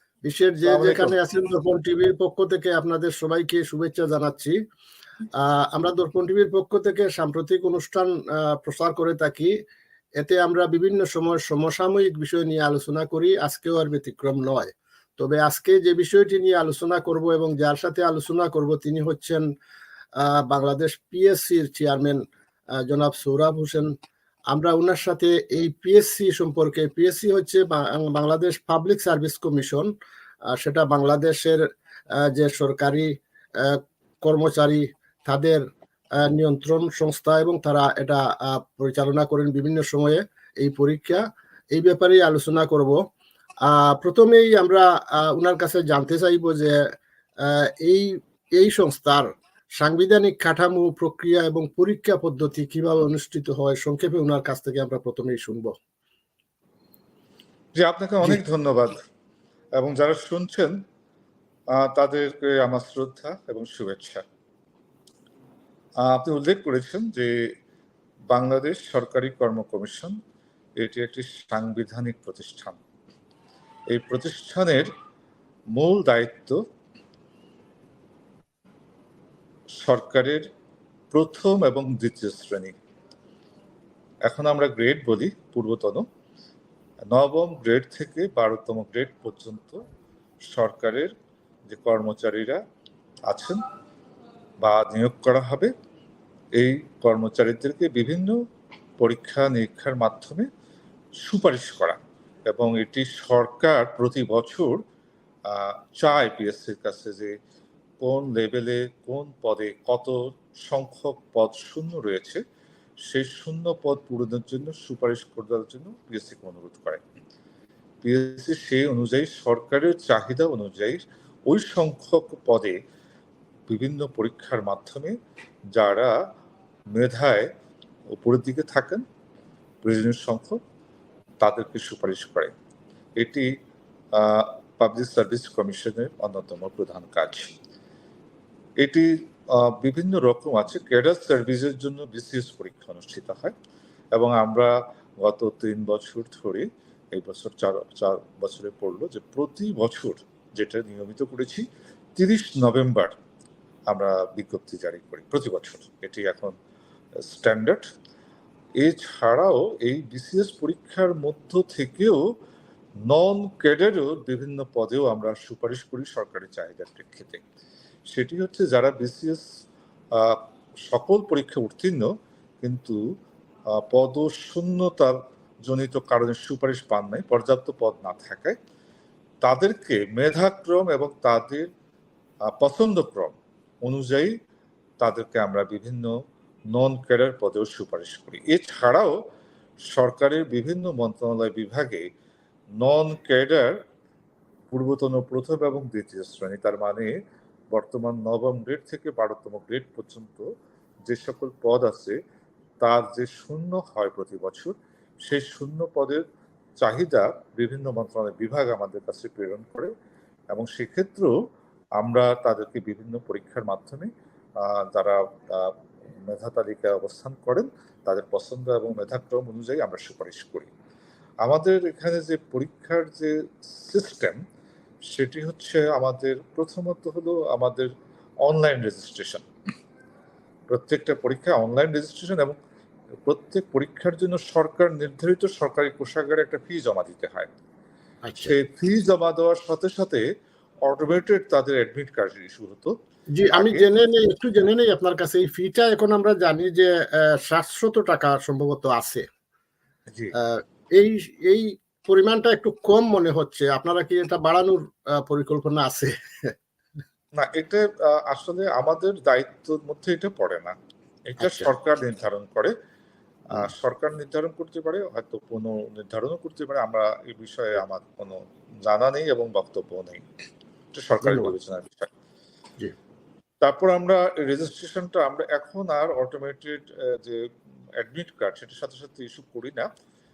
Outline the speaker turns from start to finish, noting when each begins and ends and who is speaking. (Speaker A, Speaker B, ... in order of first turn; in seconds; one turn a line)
Speaker A: 0.2-4.6
Speaker B: 0.6-1.1
Speaker A: 5.4-9.5
Speaker A: 10.2-19.4
Speaker A: 20.2-22.2
Speaker A: 22.8-23.9
Speaker A: 24.5-29.9
Speaker A: 30.5-31.6
Speaker A: 32.2-35.6
Speaker A: 36.2-43.0
Speaker A: 43.6-46.8
Speaker A: 47.4-55.7
Speaker B: 57.8-59.0
Speaker B: 59.8-60.7
Speaker B: 61.7-64.2
Speaker B: 66.0-67.3
Speaker B: 68.3-70.1
Speaker B: 70.8-72.8
Speaker B: 73.9-74.9
Speaker B: 75.7-76.6
Speaker B: 79.8-80.4
Speaker B: 81.1-82.8
Speaker B: 84.2-86.0
Speaker B: 87.1-89.8
Speaker B: 90.5-91.1
Speaker B: 91.7-92.6
Speaker B: 93.3-93.6
Speaker B: 94.6-95.7
Speaker B: 96.5-98.4
Speaker B: 99.0-100.5
Speaker B: 101.2-104.8
Speaker B: 105.5-107.3
Speaker B: 108.0-112.4
Speaker B: 113.1-117.0
Speaker B: 118.0-122.8
Speaker B: 123.7-125.1
Speaker B: 125.7-126.1
Speaker B: 126.9-127.5
Speaker B: 128.1-129.0
Speaker B: 129.8-130.6
Speaker B: 131.4-132.5
Speaker B: 133.2-133.5
Speaker B: 134.2-137.5
Speaker B: 138.8-143.5
Speaker B: 144.1-151.6
Speaker B: 152.2-153.1
Speaker B: 153.9-156.5
Speaker B: 157.3-157.9
Speaker B: 158.8-162.2
Speaker B: 163.1-167.4
Speaker B: 168.1-169.4
Speaker B: 170.1-172.1
Speaker B: 172.6-173.0
Speaker B: 173.8-178.6
Speaker B: 179.4-181.7
Speaker B: 182.6-184.3
Speaker B: 185.0-186.1
Speaker B: 186.7-189.2
Speaker B: 189.9-192.0
Speaker B: 192.8-193.8
Speaker B: 194.7-197.1
Speaker B: 197.7-200.4
Speaker B: 201.1-202.2
Speaker B: 202.8-204.7
Speaker B: 205.2-206.2
Speaker B: 206.8-209.9
Speaker B: 210.5-211.3
Speaker B: 212.0-215.7
Speaker B: 216.3-220.7
Speaker B: 221.4-224.4
Speaker B: 225.1-227.9
Speaker B: 228.4-229.4
Speaker B: 230.7-232.6
Speaker B: 233.2-237.5
Speaker A: 238.2-238.6
Speaker B: 238.4-240.2
Speaker B: 240.8-242.9
Speaker A: 243.4-249.2
Speaker B: 243.5-243.9
Speaker A: 250.3-256.5
Speaker B: 257.3-260.7
Speaker B: 261.3-262.7
Speaker A: 261.4-261.7
Speaker B: 263.5-270.2
Speaker B: 270.9-272.1
Speaker A: 271.2-271.5
Speaker B: 273.6-277.4
Speaker B: 278.0-279.9